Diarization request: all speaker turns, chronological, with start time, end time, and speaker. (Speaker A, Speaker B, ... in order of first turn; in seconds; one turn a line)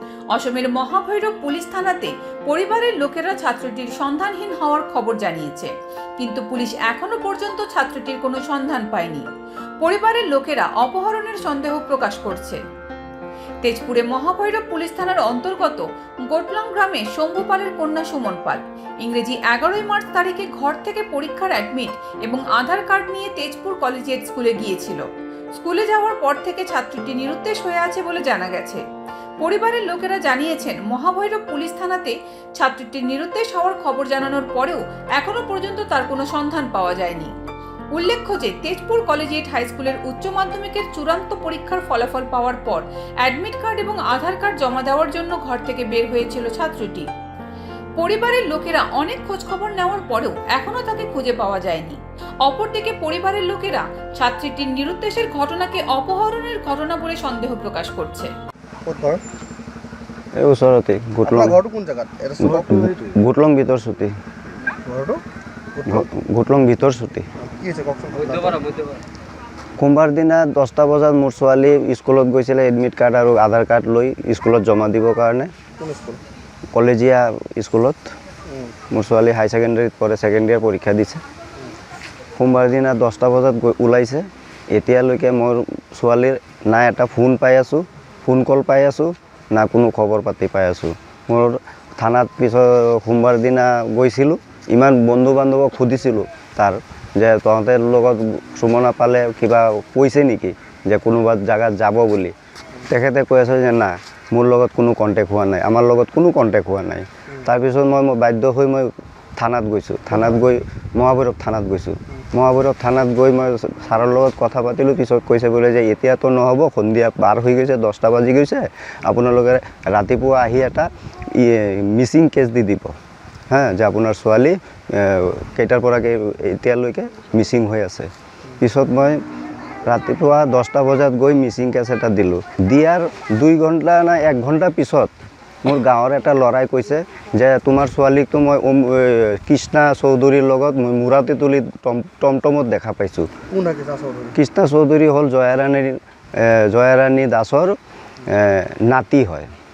Speaker A: 0.3-9.3
Speaker A: 9.8-12.6
Speaker A: 13.6-28.8
Speaker A: 29.4-37.3
Speaker A: 37.9-47.1
Speaker A: 48.0-58.3
Speaker B: 58.8-59.2
Speaker C: 60.4-61.6
Speaker B: 61.3-62.9
Speaker C: 62.4-64.2
Speaker B: 64.8-65.2
Speaker B: 65.8-66.0
Speaker C: 65.9-67.3
Speaker B: 67.4-68.7
Speaker C: 69.8-75.5
Speaker B: 75.8-76.2
Speaker C: 76.7-78.1
Speaker B: 78.5-78.7
Speaker C: 78.9-81.2
Speaker C: 82.4-102.3
Speaker C: 102.9-122.9
Speaker C: 123.5-129.2
Speaker C: 129.8-135.1
Speaker C: 135.6-143.3
Speaker B: 143.5-144.3
Speaker C: 144.3-149.5